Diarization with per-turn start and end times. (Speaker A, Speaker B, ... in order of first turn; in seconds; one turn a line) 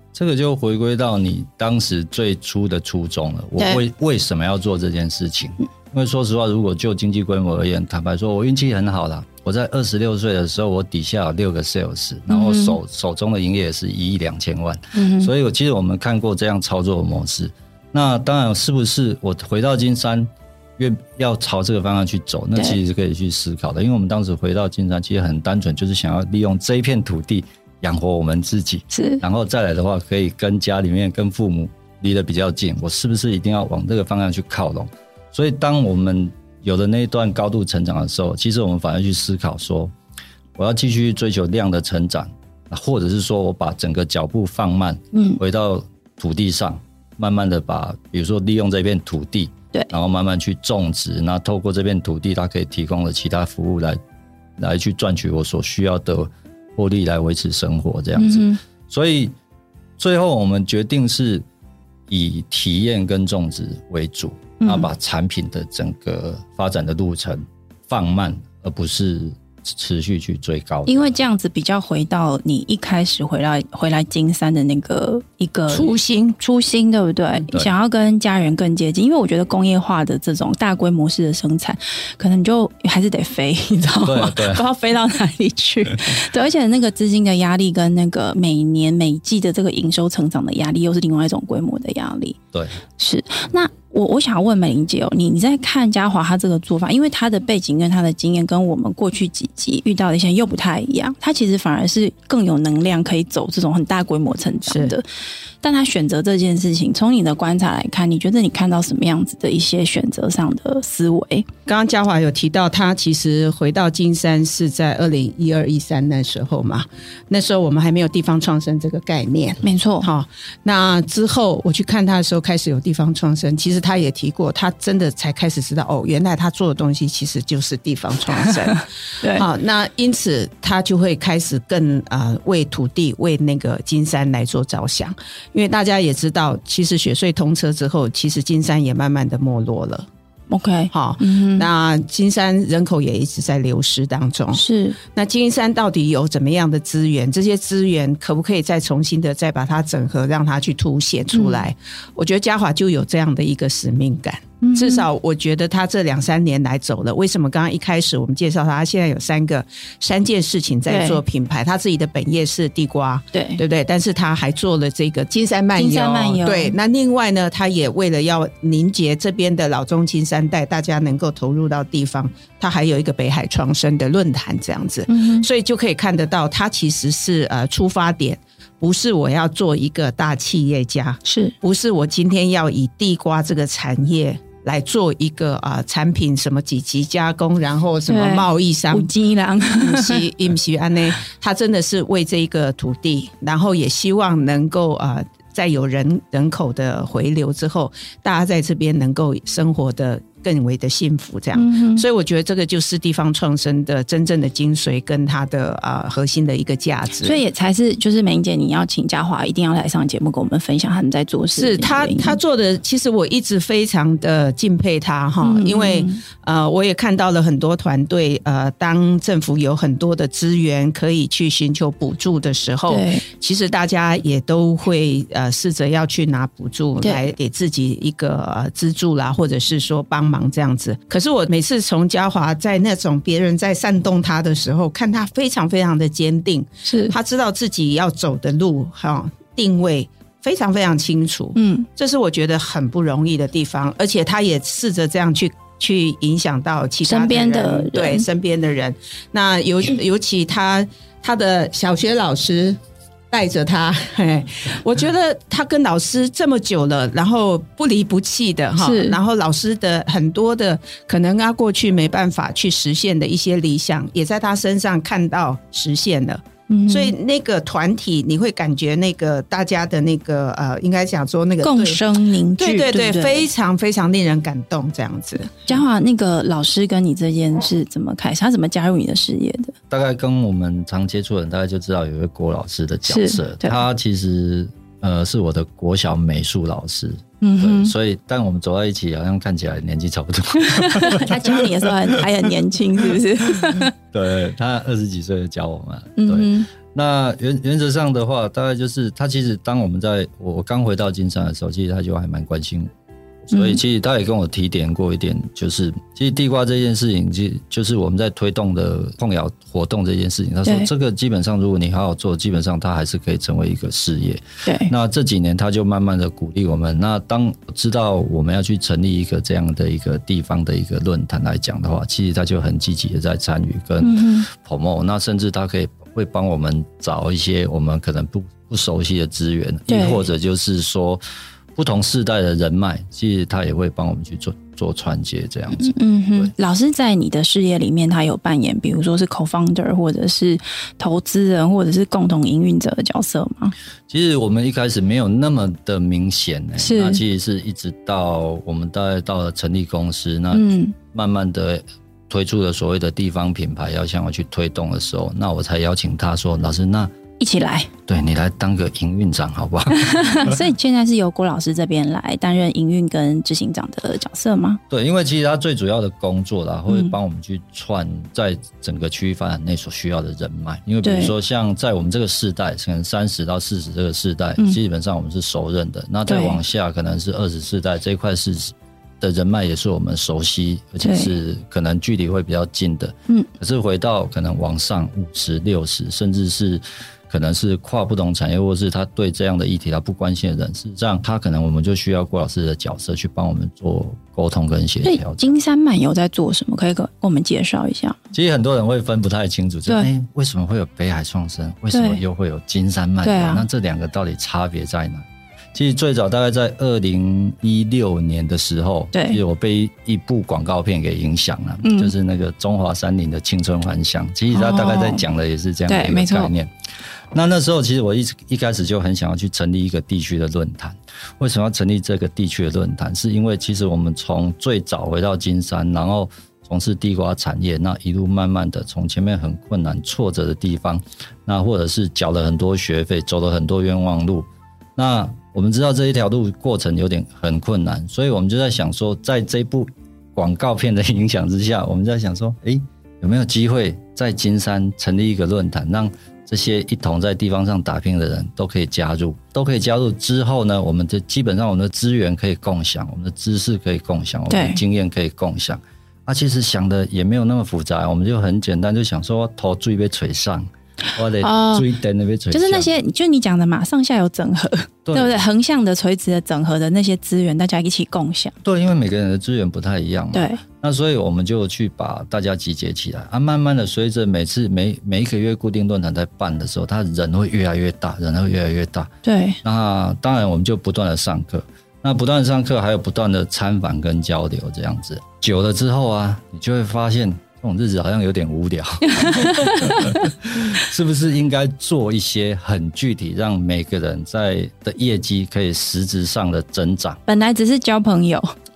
Speaker A: 0.1-39.9
Speaker B: 12.3-12.8
Speaker B: 14.9-15.3
Speaker B: 28.9-29.2
Speaker A: 40.6-54.0
Speaker B: 45.1-45.4
Speaker A: 54.6-59.4
Speaker B: 58.2-58.6
Speaker A: 60.0-61.5
Speaker A: 62.1-71.1
Speaker B: 64.6-64.9
Speaker B: 70.9-92.4
Speaker C: 75.7-76.4
Speaker A: 84.0-84.6
Speaker A: 92.5-92.8
Speaker B: 93.0-105.0
Speaker C: 104.7-105.0
Speaker B: 105.6-111.5
Speaker C: 111.7-140.1
Speaker B: 119.6-120.1
Speaker B: 129.2-129.5
Speaker B: 140.5-141.7
Speaker C: 140.9-189.1
Speaker B: 144.5-145.0
Speaker B: 151.3-151.6
Speaker B: 154.6-155.1
Speaker B: 160.9-161.2
Speaker B: 163.3-163.6
Speaker B: 165.8-166.8
Speaker B: 175.1-175.5
Speaker B: 181.3-181.5
Speaker B: 188.1-190.3
Speaker C: 189.6-207.4
Speaker B: 201.6-202.1
Speaker B: 207.2-212.4
Speaker C: 211.6-252.8
Speaker B: 215.4-216.2
Speaker B: 222.9-223.2
Speaker B: 236.9-237.2
Speaker B: 241.6-241.9
Speaker B: 247.1-248.3
Speaker C: 253.3-272.0
Speaker B: 258.8-259.2
Speaker B: 266.7-267.1
Speaker B: 271.6-273.5
Speaker C: 272.6-275.8
Speaker B: 275.7-279.7
Speaker A: 279.9-292.2
Speaker B: 283.1-283.8
Speaker B: 287.4-287.9
Speaker B: 290.7-293.9
Speaker A: 293.7-302.9
Speaker B: 296.2-296.7
Speaker A: 303.5-331.2
Speaker B: 303.5-303.8
Speaker B: 314.6-314.9
Speaker B: 324.0-324.5
Speaker B: 329.9-330.2
Speaker A: 331.8-336.5
Speaker B: 335.8-343.7
Speaker A: 344.1-357.1
Speaker B: 346.8-347.2
Speaker B: 350.5-350.9
Speaker B: 357.4-357.9
Speaker A: 358.1-360.6
Speaker B: 360.0-364.8
Speaker A: 364.9-395.5
Speaker B: 371.0-371.3
Speaker B: 376.3-376.6
Speaker B: 381.0-381.3
Speaker B: 395.0-398.2
Speaker A: 398.3-416.7
Speaker B: 401.9-402.2
Speaker B: 403.2-403.6
Speaker B: 409.1-409.4
Speaker B: 411.8-412.1
Speaker B: 414.5-415.2
Speaker B: 415.9-416.5
Speaker A: 417.3-462.9
Speaker B: 454.5-454.8
Speaker B: 461.4-461.9
Speaker B: 462.5-468.6
Speaker A: 465.1-465.4
Speaker A: 468.6-479.1
Speaker B: 470.3-470.6
Speaker B: 479.2-479.6
Speaker A: 479.6-497.2
Speaker B: 489.1-490.2
Speaker B: 497.3-498.5